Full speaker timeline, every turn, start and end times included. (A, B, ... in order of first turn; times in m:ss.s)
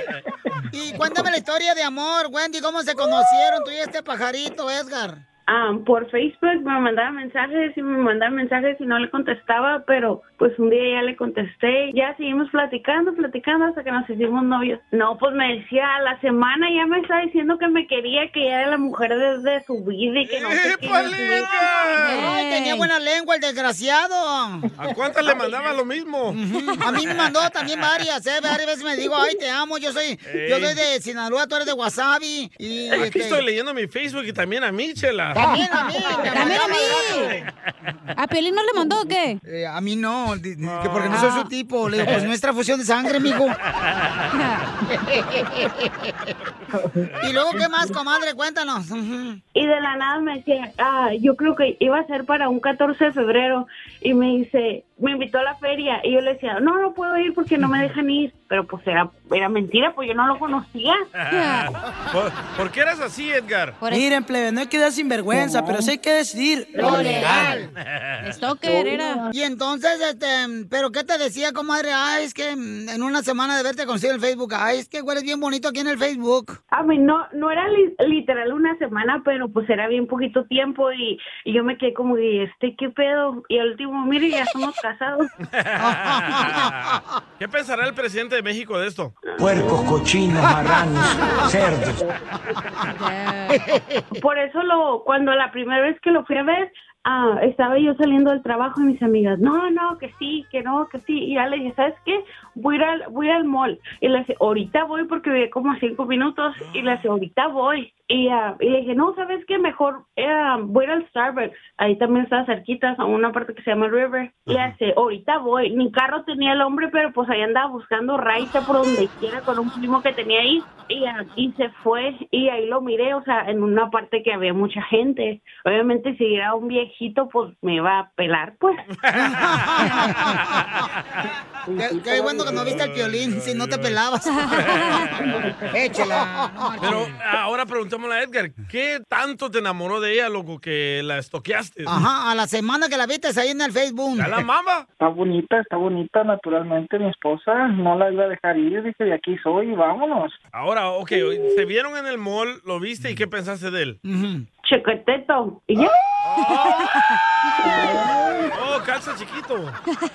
0:00.7-0:05.2 A
0:05.5-0:21.5 B
0:20.2-0:22.3 C
0:22.0-0:22.9 D
0:22.1-0:24.7 A
0:24.8-0:26.4 C
0:26.3-0:33.4 A
0:30.3-0:30.8 C
0:32.9-0:35.5 C
0:35.3-0:37.4 A
0:36.3-0:37.3 D
0:38.2-0:39.4 D
0:39.4-0:43.6 A
0:40.6-0:41.3 C
0:41.1-0:41.5 D
0:44.3-0:44.6 D
0:44.9-0:45.7 A
0:47.2-0:49.4 A
0:49.5-1:01.0 B
1:01.3-1:01.7 D
1:01.3-1:03.8 C
1:03.8-1:04.1 D
1:03.9-1:07.3 E
1:05.3-1:05.9 F
1:06.8-1:07.7 A
1:06.8-1:07.5 D
1:08.2-1:09.2 D
1:08.6-1:09.3 F
1:09.3-1:16.6 A
1:16.7-1:25.3 B
1:25.6-1:29.1 C
1:25.8-1:26.9 A
1:29.3-1:29.8 B
1:32.8-1:33.6 D
1:33.5-1:34.0 A
1:34.1-2:08.8 B
2:09.0-2:10.9 C
2:09.2-2:10.3 A
2:11.7-2:12.8 F
2:11.8-2:14.6 A
2:12.4-2:15.2 C
2:14.5-2:15.0 D
2:15.7-2:17.1 A
2:16.8-2:21.9 C
2:21.9-2:24.3 A
2:24.2-2:24.8 C
2:25.0-2:30.4 F
2:30.5-2:34.0 C
2:34.0-2:34.4 A
2:34.6-2:35.9 B
2:36.3-2:36.9 C
2:37.6-2:38.5 F
2:38.5-2:39.8 C